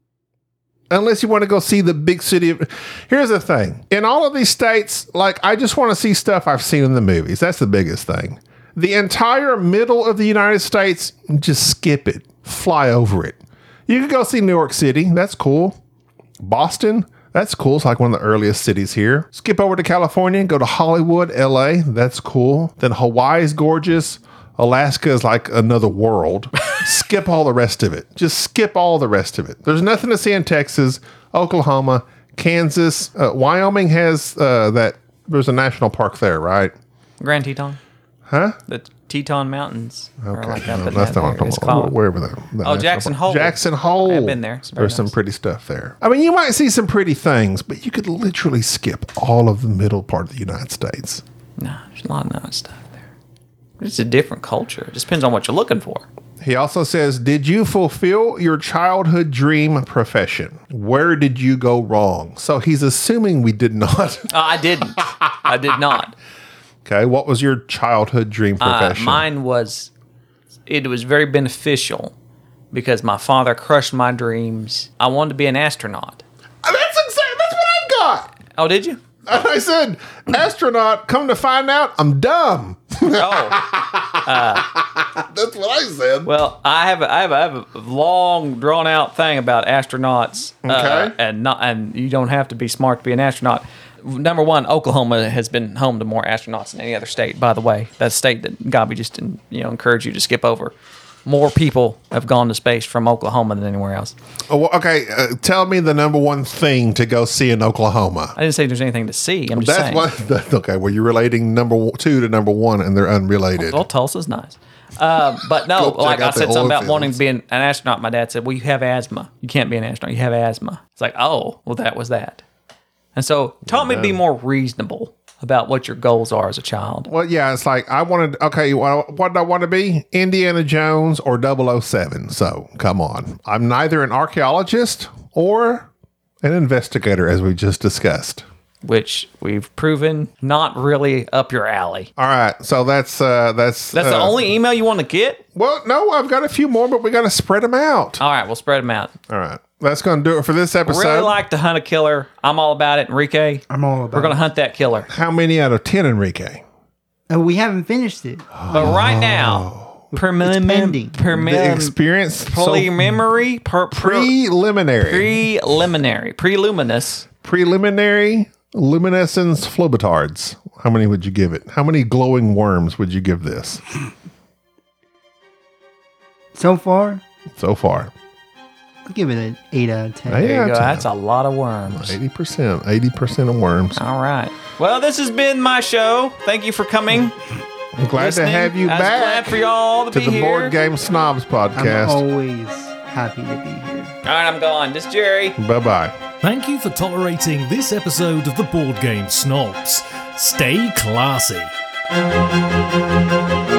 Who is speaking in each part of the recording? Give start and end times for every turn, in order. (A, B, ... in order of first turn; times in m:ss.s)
0:00.9-0:15.8 A
0:16.4-0:36.7 A
0:37.2-0:37.8 B
0:38.3-0:38.6 A
0:38.7-0:41.9 B
0:40.2-0:51.2 A
0:42.6-0:45.1 B
0:51.6-0:53.0 B
0:53.8-0:56.0 B
0:56.4-1:04.3 A
1:04.3-1:06.1 B
1:06.8-1:09.3 A
1:08.6-1:09.9 B
1:10.7-1:12.1 B
1:12.7-1:16.2 B
1:16.6-1:18.3 A
1:18.5-1:19.0 B
1:19.2-1:26.3 A
1:23.1-1:24.8 B
1:26.2-1:40.7 B
1:30.6-1:31.2 A
1:41.2-1:44.1 B
1:44.5-1:48.4 A
1:48.4-1:50.1 B
1:49.5-1:53.8 A
1:53.6-2:02.4 B
1:55.7-1:57.1 A
2:03.1-2:07.1 B
2:03.7-2:04.2 A
2:07.1-2:15.9 A
2:16.4-2:18.4 A
2:18.8-2:22.1 B
2:22.2-2:24.5 A
2:23.9-2:25.4 B
2:25.5-2:28.2 A
2:28.2-2:29.1 B
2:29.3-2:31.4 A
2:30.8-2:35.1 B
2:33.7-2:34.4 C
2:35.1-2:36.6 A
2:37.3-2:39.0 C
2:38.6-2:40.0 A
2:38.7-2:44.3 B
2:40.1-2:41.2 C
2:41.3-2:42.9 A
2:43.9-2:45.4 A
2:45.0-2:47.3 B
2:47.4-2:53.8 A
2:56.5-2:57.2 C
2:57.6-2:58.1 A
2:59.0-3:00.6 C
3:00.3-3:01.1 A
3:00.4-3:02.2 B
3:01.9-3:04.0 A
3:03.9-3:07.4 B
3:08.0-3:12.2 A
3:08.1-3:10.8 B
3:11.7-3:14.1 C
3:14.2-3:15.6 B
3:15.6-3:16.2 A
3:16.4-3:21.7 D